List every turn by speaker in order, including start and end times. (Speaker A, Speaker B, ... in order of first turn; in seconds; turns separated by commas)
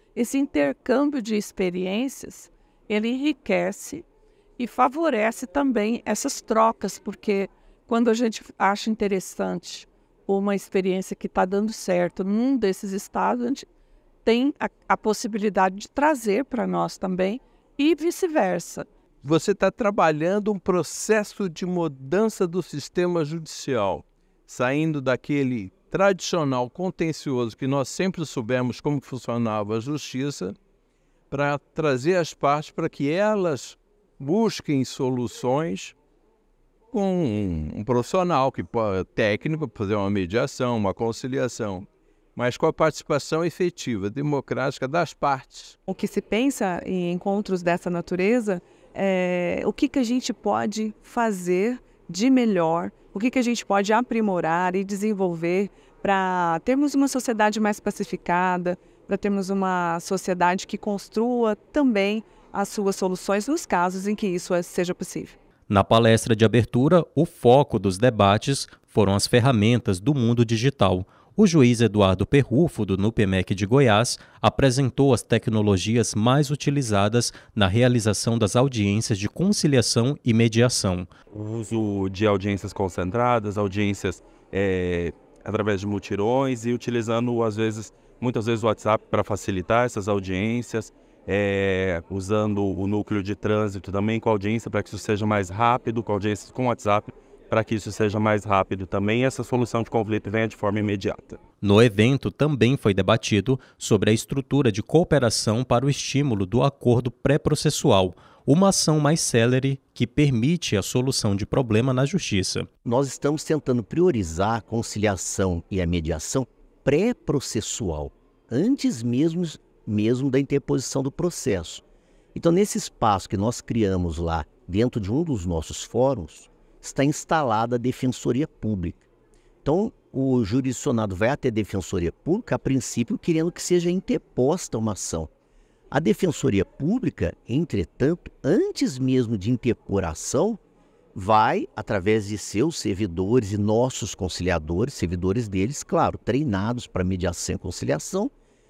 Speaker A: 0.1-4.0, Speaker A: 4.6-13.7, Speaker A: 14.2-18.9, Speaker B: 19.2-30.6, Speaker B: 31.3-35.9, Speaker B: 36.9-45.8, Speaker C: 45.9-65.3, Speaker D: 65.7-81.1, Speaker E: 81.3-101.4, Speaker D: 101.6-112.7, Speaker F: 112.8-121.8, Speaker F: 122.3-129.0, Speaker F: 129.6-135.3, Speaker F: 135.9-140.6, Speaker F: 141.1-148.3